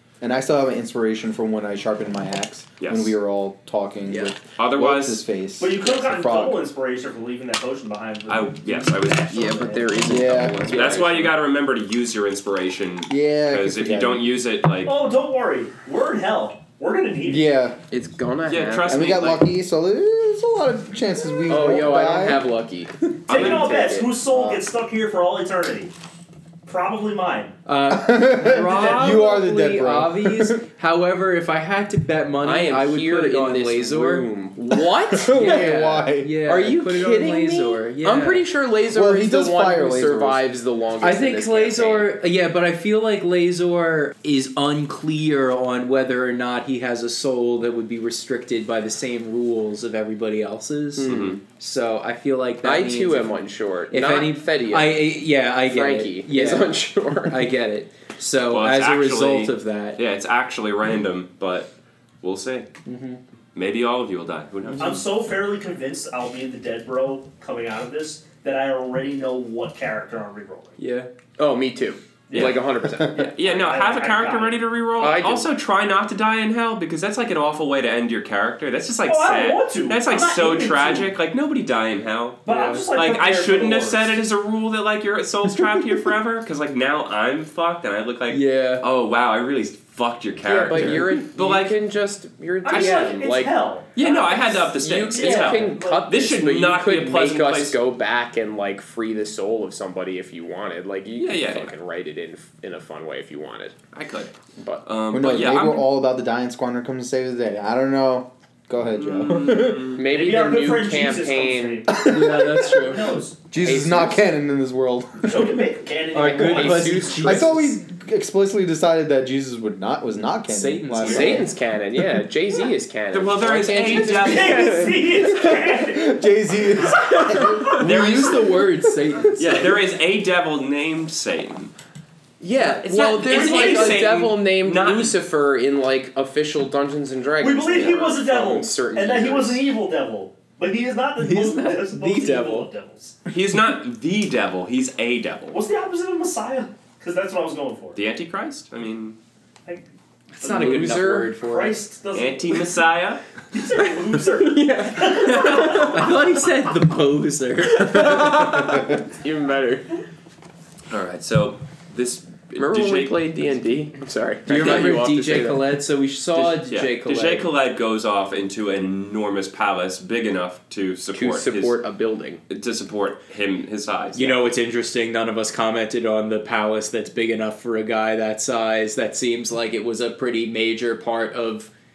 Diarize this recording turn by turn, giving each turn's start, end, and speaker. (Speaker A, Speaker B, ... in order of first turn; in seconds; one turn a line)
Speaker A: 0.2-6.6
Speaker B: 2.8-3.2
Speaker B: 4.6-5.2
Speaker C: 5.6-9.9
Speaker B: 8.3-15.0
Speaker D: 9.3-11.4
Speaker A: 10.0-10.7
Speaker A: 13.1-14.3
Speaker C: 14.8-17.5
Speaker A: 17.3-17.8
Speaker D: 17.9-19.2
Speaker B: 18.5-19.4
Speaker A: 18.9-22.5
Speaker D: 21.5-24.2
Speaker C: 23.3-25.9
Speaker B: 23.3-23.7
Speaker A: 24.3-24.7
Speaker C: 26.6-27.6
Speaker E: 27.7-34.3
Speaker A: 27.9-30.6
Speaker C: 28.6-29.2
Speaker D: 32.4-42.1
Speaker A: 35.1-36.4
Speaker E: 35.4-38.5
Speaker A: 38.9-40.4
Speaker E: 41.0-53.4
Speaker D: 51.0-51.4
Speaker B: 51.0-51.4
Speaker D: 52.6-57.5
Speaker E: 53.9-60.0
Speaker B: 58.5-62.7
Speaker E: 62.9-63.2
Speaker B: 63.5-65.0
Speaker E: 64.7-65.0
Speaker C: 64.8-70.8
Speaker E: 70.8-71.1
Speaker D: 71.4-73.3
Speaker C: 72.3-74.6
Speaker B: 72.3-72.7
Speaker B: 73.2-91.8
Speaker D: 75.0-75.5
Speaker C: 79.0-81.1
Speaker C: 82.5-84.2
Speaker E: 82.5-82.8
Speaker E: 88.3-88.8
Speaker D: 90.4-93.6
Speaker E: 90.7-91.0
Speaker C: 92.6-96.1
Speaker B: 92.7-93.1
Speaker B: 94.0-97.8
Speaker D: 94.8-103.8
Speaker B: 101.2-101.7
Speaker B: 103.9-104.3
Speaker D: 104.6-104.8
Speaker B: 104.8-105.9
Speaker A: 105.1-110.0
Speaker B: 109.0-110.0
Speaker D: 110.0-111.9
Speaker C: 110.1-113.5
Speaker A: 111.9-112.6
Speaker E: 112.0-113.2
Speaker A: 113.5-115.7
Speaker D: 113.6-114.3
Speaker C: 115.2-117.1
Speaker E: 116.1-117.8
Speaker D: 116.2-117.6
Speaker A: 117.2-121.5
Speaker E: 120.5-121.5
Speaker D: 121.0-125.7
Speaker B: 123.1-124.9
Speaker C: 124.0-126.2
Speaker A: 125.9-129.0
Speaker C: 126.8-127.7
Speaker B: 127.8-128.6
Speaker E: 127.8-129.7
Speaker B: 129.4-131.7
Speaker D: 132.4-139.7
Speaker B: 132.7-135.2
Speaker C: 133.3-134.1
Speaker E: 134.1-134.3
Speaker C: 137.4-143.2
Speaker E: 141.2-142.7
Speaker B: 143.3-145.6
Speaker C: 145.5-148.0
Speaker B: 148.0-149.2
Speaker E: 150.3-151.8
Speaker C: 150.4-152.7
Speaker D: 150.5-151.3
Speaker B: 152.1-153.2
Speaker C: 153.5-156.2
Speaker D: 154.3-156.0
Speaker E: 155.9-158.8
Speaker D: 157.7-160.0
Speaker B: 160.9-163.4
Speaker D: 162.6-165.7
Speaker E: 164.5-167.5
Speaker B: 166.4-171.8
Speaker D: 171.1-172.4
Speaker B: 172.5-174.4
Speaker E: 174.2-181.7